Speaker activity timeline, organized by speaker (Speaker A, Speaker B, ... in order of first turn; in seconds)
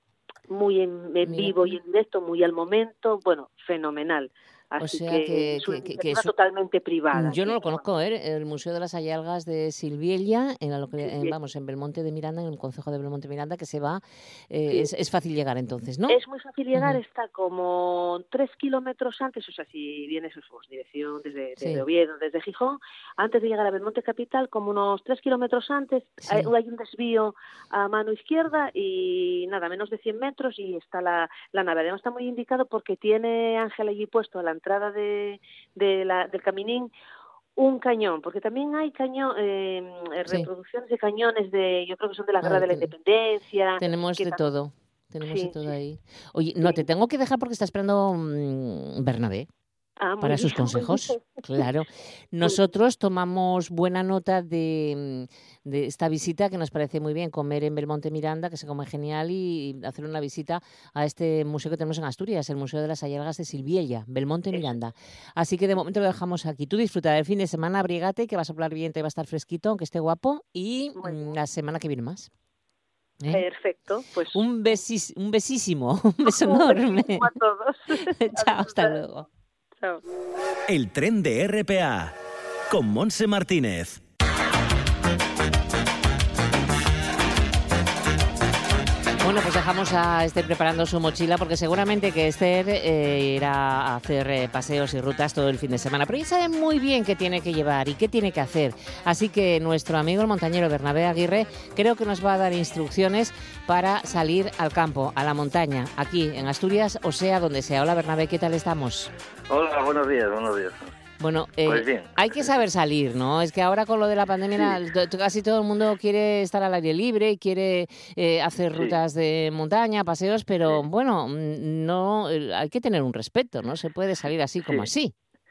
Speaker A: 0.5-7.8, 11.0-11.3, 16.1-36.9, 37.6-44.4, 45.2-45.7, 50.0-51.6, 71.0-71.3, 73.3-74.4, 76.2-79.0
Speaker B: 1.2-1.8, 4.8-6.3, 7.1-16.2, 16.7-17.0, 26.2-26.5, 42.4-42.9, 43.8-49.5, 50.2-72.3, 74.3-77.3, 78.0-79.2, 89.2-109.1, 111.2-125.1
Speaker C: 80.7-82.1, 82.7-84.0
Speaker D: 109.5-110.9, 111.6-112.6, 118.7-119.0, 124.6-124.9